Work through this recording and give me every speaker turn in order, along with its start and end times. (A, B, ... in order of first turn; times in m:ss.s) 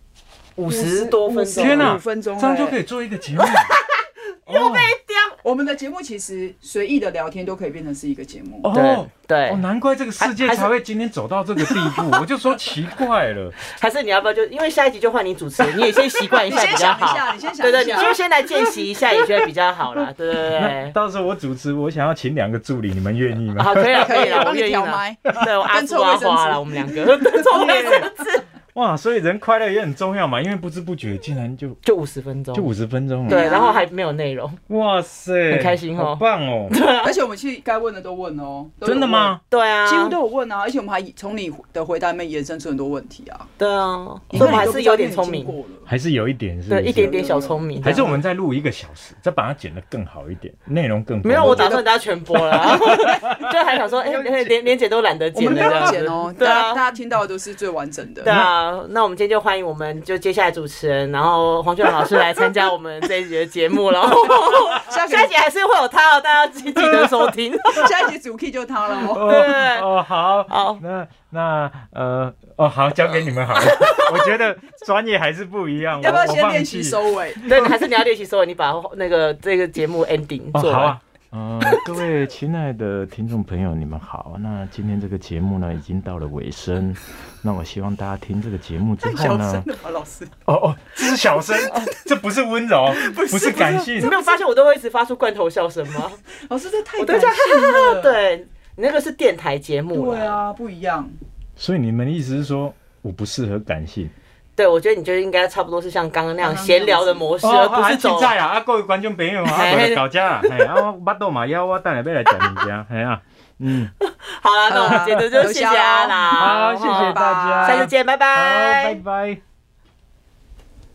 0:00.6-0:02.0 A
0:00.7-0:02.8 B
0:01.6-0:03.8 C
0:03.4-0:05.4 A
0:04.5-0:04.9 C
0:05.4-0:08.7 B
0:08.6-0:13.6 C
0:08.7-0:09.6 A
0:10.2-0:10.7 A
0:11.6-0:12.2 A
0:13.6-0:20.9 A
0:16.4-0:18.2 B
0:19.1-0:19.5 C
0:20.5-0:24.5 C
0:23.5-0:28.4 A
0:24.0-0:28.1 B
0:27.5-0:28.1 C
0:28.7-0:31.8 C
0:31.8-0:32.7 A
0:32.5-0:33.5 C
0:33.3-0:33.8 B
0:33.3-0:34.6 A
0:34.7-0:36.8 C
0:35.5-0:37.2 A
0:37.0-0:43.5 B
0:38.8-0:39.4 C
0:39.5-0:40.2 A
0:43.6-0:45.6 A
0:44.3-0:45.9 B
0:44.3-0:44.8 C
0:45.8-0:47.3 C
0:46.7-0:48.2 A
0:46.9-0:48.2 B
0:47.8-0:51.8 C
0:51.2-0:56.8 A
0:51.4-0:53.5 B
0:52.6-0:53.5 C
0:54.0-0:54.5 C
0:55.3-0:58.3 B
0:55.5-0:56.0 C
0:58.2-1:07.9 A
0:58.2-0:58.5 C
1:04.0-1:05.3 B
1:07.6-1:09.4 B
1:09.0-1:09.9 A
1:09.1-1:17.7 C
1:10.5-1:10.8 A
1:13.6-1:14.3 A
1:16.0-1:17.5 B
1:17.4-1:21.0 A
1:20.5-1:29.7 C
1:29.0-1:30.3 B
1:30.4-1:34.1 C
1:31.1-1:32.0 B
1:32.9-1:34.3 B
1:34.0-1:36.2 A
1:36.4-1:38.2 B
1:37.0-1:40.4 A
1:39.9-1:41.2 B
1:41.6-1:44.1 C
1:44.6-1:48.3 A
1:46.4-1:47.3 B
1:47.4-1:53.9 C
1:49.4-1:50.8 A
1:54.0-1:59.0 A
1:54.7-1:57.9 B
1:54.9-1:55.2 C
1:56.4-1:59.4 C